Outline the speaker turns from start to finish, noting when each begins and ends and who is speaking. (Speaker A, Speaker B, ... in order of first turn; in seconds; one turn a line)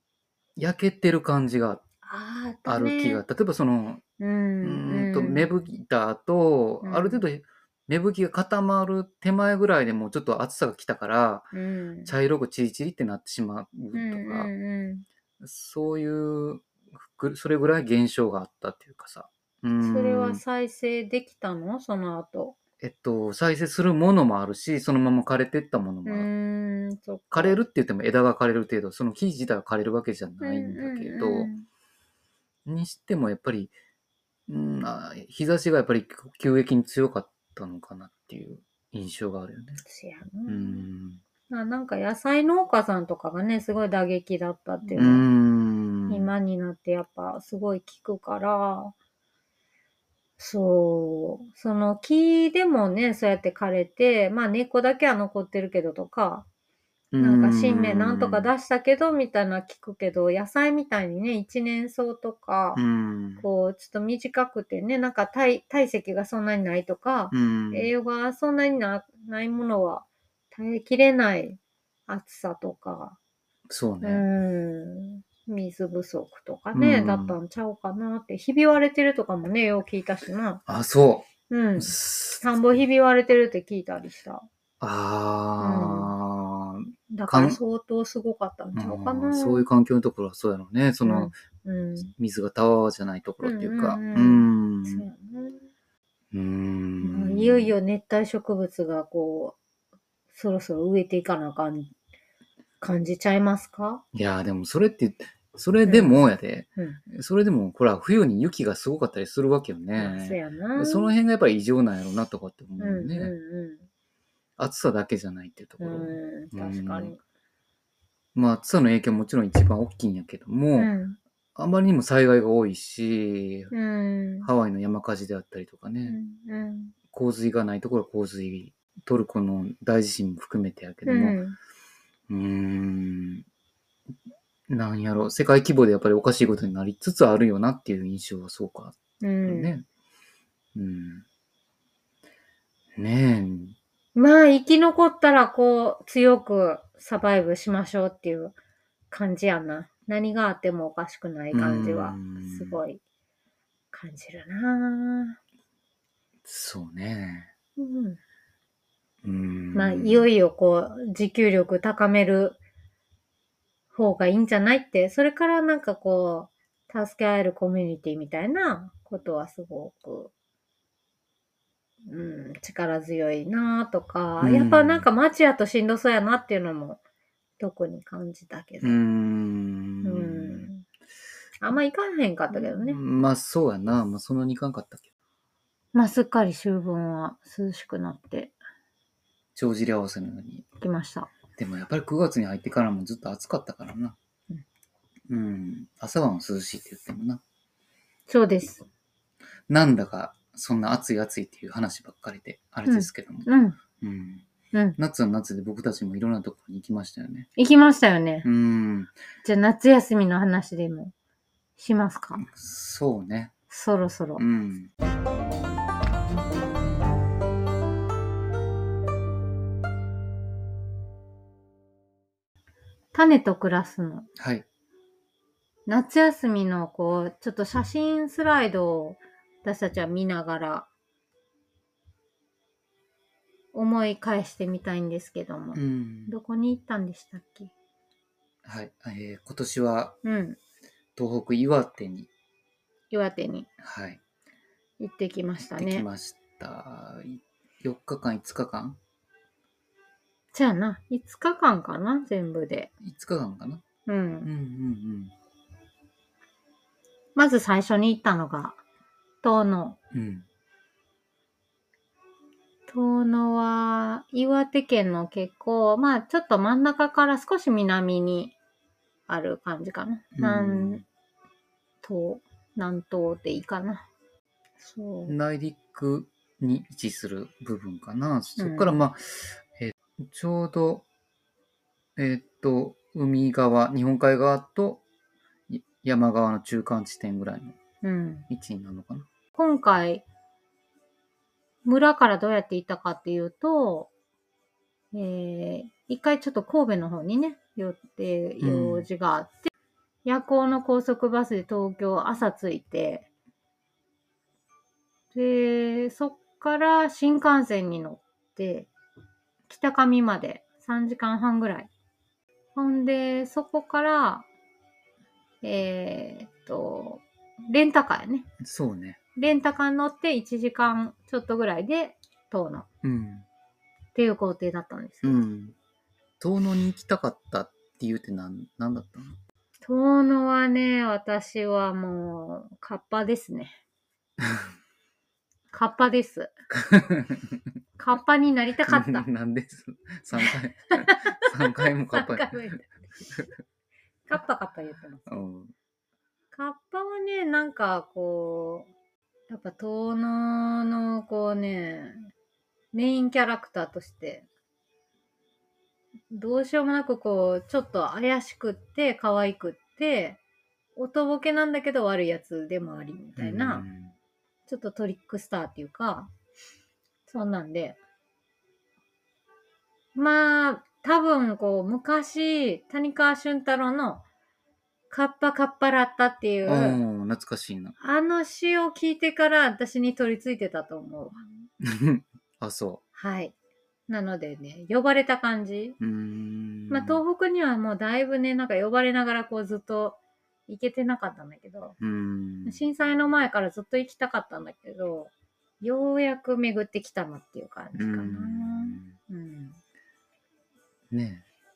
Speaker A: 0.6-1.8
Speaker B: 2.0-3.2
Speaker A: 2.6-4.0
Speaker B: 4.2-5.5
Speaker A: 4.6-11.5
Speaker B: 6.8-7.2
Speaker B: 11.5-12.1
Speaker A: 12.0-14.5
Speaker B: 13.9-15.0
Speaker A: 15.4-20.4
Speaker B: 19.8-22.6
Speaker A: 22.8-26.3
Speaker B: 26.1-27.6
Speaker A: 27.3-31.5
Speaker B: 30.4-31.6
Speaker A: 32.6-33.7
Speaker A: 34.5-39.8
Speaker B: 39.8-40.8
Speaker A: 40.5-41.2
Speaker B: 41.5-45.2
Speaker A: 44.9-46.3
Speaker B: 46.1-48.9
Speaker B: 50.4-56.5
Speaker A: 57.1-58.5
Speaker B: 57.2-62.8
Speaker A: 62.8-63.4
Speaker B: 63.4-73.2
Speaker A: 67.3-67.9
Speaker A: 73.7-74.2
Speaker B: 74.0-80.6
Speaker A: 76.7-77.4
Speaker A: 80.7-82.4
Speaker B: 81.5-84.5
Speaker A: 84.8-87.6
Speaker B: 85.6-86.1
Speaker B: 87.1-89.7
Speaker A: 88.7-91.3
Speaker B: 91.0-92.1
Speaker A: 92.0-95.1
Speaker B: 93.4-95.6
Speaker A: 96.3-97.7
Speaker B: 97.0-99.6
Speaker B: 100.3-101.9
Speaker B: 102.8-104.0
Speaker A: 104.1-113.3
Speaker B: 105.8-106.2
Speaker B: 110.0-111.1
Speaker B: 112.8-113.9
Speaker A: 114.6-117.2
Speaker B: 115.8-117.2
Speaker A: 118.3-120.9
Speaker B: 120.8-121.2
Speaker A: 121.5-123.7
Speaker B: 123.7-124.5
Speaker A: 124.4-126.2
Speaker B: 126.0-126.9
Speaker A: 127.1-131.4
Speaker B: 131.1-131.6
Speaker A: 132.3-133.4
Speaker A: 134.7-139.8
Speaker B: 139.2-139.7
Speaker A: 140.7-141.2
Speaker A: 142.9-143.8
Speaker B: 144.1-148.5
Speaker B: 149.1-153.0
Speaker A: 151.5-152.8
Speaker B: 153.9-155.4
Speaker A: 156.4-157.5
Speaker B: 157.8-158.2
Speaker A: 159.2-160.3
Speaker B: 159.7-162.6
Speaker B: 163.9-170.3
Speaker B: 172.1-177.0
Speaker A: 174.4-175.1
Speaker B: 177.6-179.0
Speaker A: 178.8-180.7
Speaker B: 180.0-180.8
Speaker B: 181.6-183.0
Speaker A: 182.5-185.0
Speaker B: 185.9-188.6
Speaker A: 189.5-190.7
Speaker B: 190.8-191.3
Speaker A: 191.6-194.2
Speaker A: 195.3-197.4
Speaker B: 198.3-198.8
Speaker A: 199.7-203.5
Speaker B: 202.8-203.8
Speaker A: 204.0-204.4
Speaker B: 204.7-205.0
Speaker A: 205.0-207.5
Speaker B: 207.6-208.4
Speaker A: 208.4-209.1
Speaker B: 209.4-211.1
Speaker B: 211.8-212.4
Speaker A: 212.4-213.5
Speaker B: 213.7-214.4
Speaker A: 214.4-214.9
Speaker B: 223.1-224.3
Speaker A: 224.4-224.7
Speaker B: 225.9-230.9
Speaker B: 233.7-237.7
Speaker A: 235.7-236.3
Speaker A: 238.6-240.2
Speaker B: 240.2-240.6
Speaker A: 241.2-242.3
Speaker B: 243.1-243.7
Speaker A: 243.8-244.2
Speaker B: 245.0-246.1
Speaker A: 245.8-249.0
Speaker B: 250.5-252.9
Speaker A: 253.0-253.8
Speaker B: 254.1-254.5
Speaker A: 254.4-255.3
Speaker B: 257.3-258.8
Speaker B: 259.4-260.0
Speaker A: 260.1-260.4
Speaker B: 262.9-268.5
Speaker B: 269.3-271.0
Speaker A: 270.4-271.0
Speaker B: 272.0-274.0
Speaker B: 274.8-275.3
Speaker A: 275.3-281.1
Speaker B: 278.6-279.0
Speaker A: 282.1-285.0
Speaker A: 285.7-287.8
Speaker B: 288.0-288.5
Speaker A: 288.5-289.3
Speaker B: 289.5-290.2
Speaker B: 291.8-294.1
Speaker B: 295.1-299.7
Speaker A: 298.6-299.1
Speaker B: 300.2-303.3
Speaker B: 305.3-308.9
Speaker B: 309.7-311.9
Speaker B: 312.7-314.4
Speaker B: 315.6-318.5
Speaker A: 318.6-319.2
Speaker B: 319.4-322.9
Speaker A: 323.0-323.4
Speaker B: 324.1-325.4
Speaker A: 325.2-325.7
Speaker A: 326.4-329.4
Speaker B: 329.8-333.8
Speaker A: 334.4-334.7
Speaker B: 335.7-336.5
Speaker A: 336.7-337.6
Speaker B: 338.0-339.3
Speaker A: 338.9-343.5
Speaker B: 340.4-342.9
Speaker B: 344.3-345.4
Speaker A: 345.3-345.7
Speaker B: 346.5-348.9
Speaker B: 349.5-352.3
Speaker B: 352.9-354.4
Speaker B: 356.3-360.4
Speaker B: 360.9-363.8
Speaker A: 363.4-364.1
Speaker B: 364.7-366.3
Speaker B: 367.3-368.0
Speaker B: 370.1-374.2
Speaker B: 375.1-377.0
Speaker A: 376.6-377.9
Speaker B: 378.0-381.4
Speaker A: 381.8-383.0
Speaker B: 383.1-383.5
Speaker B: 384.1-386.0
Speaker A: 386.0-387.2
Speaker B: 386.9-391.9
Speaker A: 392.0-392.8
Speaker B: 392.6-399.8
Speaker A: 397.9-399.1
Speaker A: 401.1-401.4